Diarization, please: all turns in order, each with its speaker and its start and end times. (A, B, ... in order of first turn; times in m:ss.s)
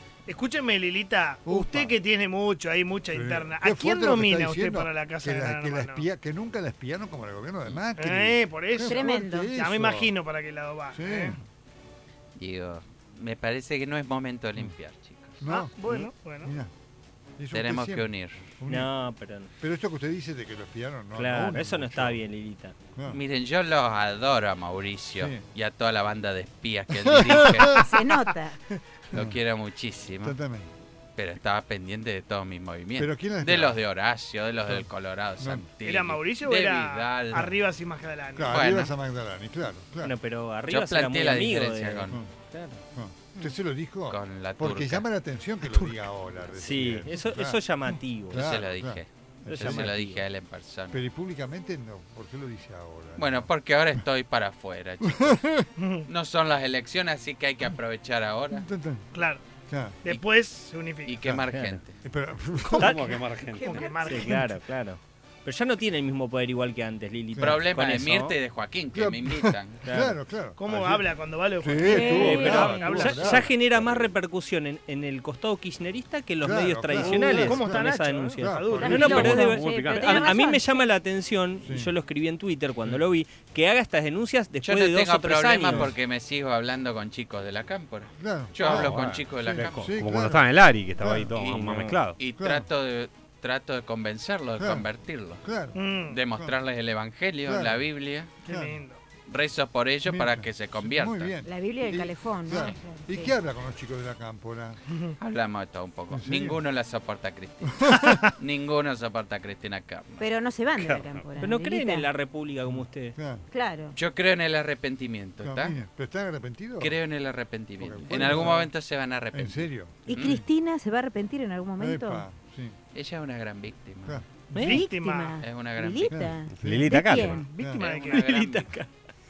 0:00.3-0:06.0 A
0:01.4-0:02.0 B
0:03.1-0:10.1 B
0:08.0-0:11.4 A
0:08.8-0:09.5 C
0:10.9-0:11.4 B
0:12.4-0:15.4 D
0:15.4-0:15.7 B
0:15.5-0:16.5 A
0:16.4-0:16.7 B
0:17.4-0:18.9 B
0:17.5-0:18.4 D
0:18.7-0:19.5 E
0:19.6-0:22.2 B
0:21.1-0:22.7 E
0:22.9-0:23.2 B
0:23.1-0:27.8 D
0:26.9-0:27.9 B
0:27.8-0:28.6 C
0:29.1-0:30.4 D
0:30.2-0:30.7 B
0:31.2-0:37.5 D
0:33.0-0:33.8 B
0:35.4-0:35.6 B
0:35.8-0:38.6 A
0:38.4-0:40.1 B
0:38.5-0:38.9 D
0:40.0-0:42.8 E
0:40.7-0:42.2 D
0:42.9-0:50.0 B
0:44.1-0:45.1 D
0:46.5-0:48.4 E
0:48.3-0:51.0 D
0:49.5-0:50.2 E
0:50.9-0:54.0 B
0:53.2-0:58.6 D
0:55.0-0:55.7 B
0:55.8-0:56.0 A
0:58.5-0:59.0 B
0:59.1-0:59.4 A
0:59.7-1:00.0 B
1:00.0-1:01.2 A
1:01.0-1:01.9 D
1:01.2-1:03.2 B
1:02.6-1:04.6 A
1:02.8-1:03.8 F
1:03.7-1:04.0 C
1:04.0-1:08.4 E
1:07.4-1:07.6 B
1:07.4-1:09.8 D
1:08.9-1:13.5 B
1:09.8-1:10.2 E
1:10.6-1:13.5 A
1:11.8-1:13.1 C
1:12.1-1:25.9 E
1:16.4-1:19.3 B
1:17.0-1:19.4 A
1:18.7-1:20.9 C
1:18.9-1:20.3 F
1:21.6-1:21.9 B
1:24.6-1:29.9 D
1:25.6-1:25.9 B
1:28.2-1:30.5 B
1:28.6-1:32.2 F
1:31.0-1:31.4 B
1:31.4-1:35.4 D
1:31.6-1:32.0 E
1:32.4-1:32.6 B
1:34.6-1:34.9 B
1:35.4-1:35.8 B
1:35.7-1:36.2 A
1:36.1-1:38.3 D
1:37.4-1:37.8 B
1:38.4-1:39.0 A
1:38.4-1:38.8 B
1:39.3-1:41.3 D
1:40.0-1:44.8 B
1:41.4-1:43.4 C
1:45.2-1:50.2 D
1:46.1-1:46.6 B
1:47.6-1:48.2 B
1:48.0-1:48.3 A
1:50.2-1:52.1 C
1:50.8-1:51.2 F
1:51.4-1:53.1 E
1:52.7-1:53.4 B
1:53.5-1:54.0 C
1:53.9-1:55.8 D
1:55.4-1:57.0 B
1:56.8-2:00.4 D
1:57.8-1:58.7 B
1:59.3-2:00.4 B
2:00.0-2:02.2 C
2:01.8-2:02.8 B
2:02.9-2:04.2 D
2:04.0-2:04.5 B
2:04.5-2:04.8 E
2:04.6-2:05.4 A
2:04.6-2:07.5 C
2:05.4-2:06.2 D
2:06.1-2:07.8 B
2:06.5-2:07.4 F
2:06.9-2:08.3 A
2:07.7-2:08.7 D
2:08.1-2:08.9 E